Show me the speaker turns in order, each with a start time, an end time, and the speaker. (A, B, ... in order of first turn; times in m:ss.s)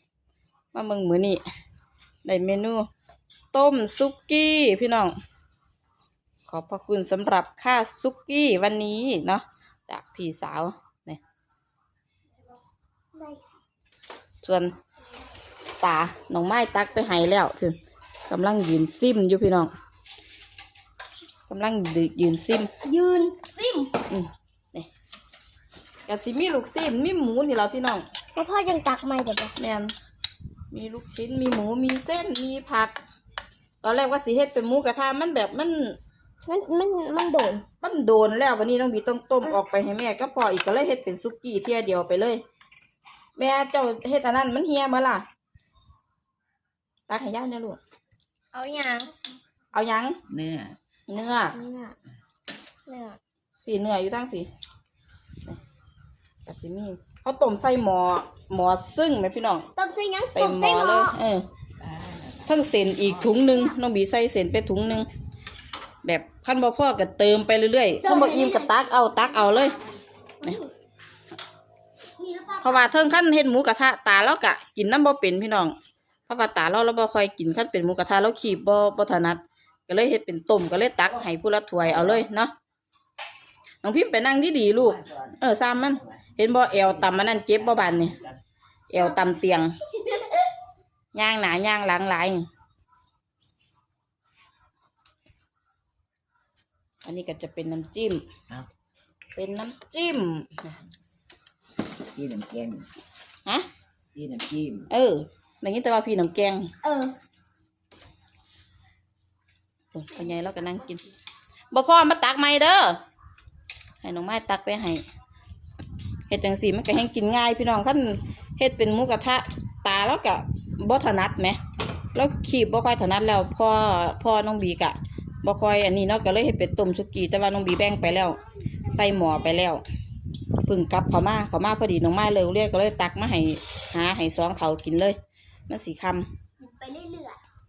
0:00.7-0:01.4 A
0:02.2-0:02.9 A
0:03.5-0:05.1 A
0:06.4-0:11.2 A
0:13.1-0:13.4 B
0:14.4-0:14.7 A
0:15.8-0:17.8 A
0:18.3-0:19.7 A
0:21.5-0:22.7 A
0:22.8-0:23.9 B
0:24.1-0:24.9 A
0:26.1-0:28.0 A
0:28.3-0:29.6 B
0:29.6-0:29.9 A
0:30.7-0:32.9 A
0:33.8-0:36.0 A
0:36.4-0:37.6 B
0:37.8-0:42.4 A
0:43.4-0:45.2 A
0:47.1-0:47.8 A
0:48.5-0:49.2 B
0:49.7-0:50.2 A
0:50.3-0:50.8 C
0:51.1-0:51.6 A
0:51.5-0:52.0 B
0:52.8-0:53.2 B
0:53.6-0:54.5 A
0:56.4-0:59.7 A
0:59.8-1:01.2 B
1:00.3-1:01.5 A
1:01.8-1:03.4 C
1:02.4-1:05.1 A
1:06.0-1:09.8 A
1:08.0-1:10.7 B
1:12.2-1:13.0 B
1:12.6-1:15.7 A
1:16.3-1:22.5 A
1:23.8-1:28.2 A
1:24.9-1:25.3 C
1:26.9-1:28.4 C
1:28.9-1:29.8 A
1:29.9-1:30.5 B
1:31.1-1:32.5 A
1:37.0-1:38.2 A
1:39.4-1:40.7 A
1:42.1-1:42.9 C
1:44.1-1:44.9 C
1:44.9-1:46.7 A
1:46.8-1:47.1 B
1:49.9-1:51.0 A
1:51.7-1:53.0 A
1:54.0-1:55.0 A
1:56.3-2:01.6 A
2:02.1-2:09.8 A
2:10.6-2:15.2 A
2:15.7-2:16.3 A
2:16.6-2:17.4 B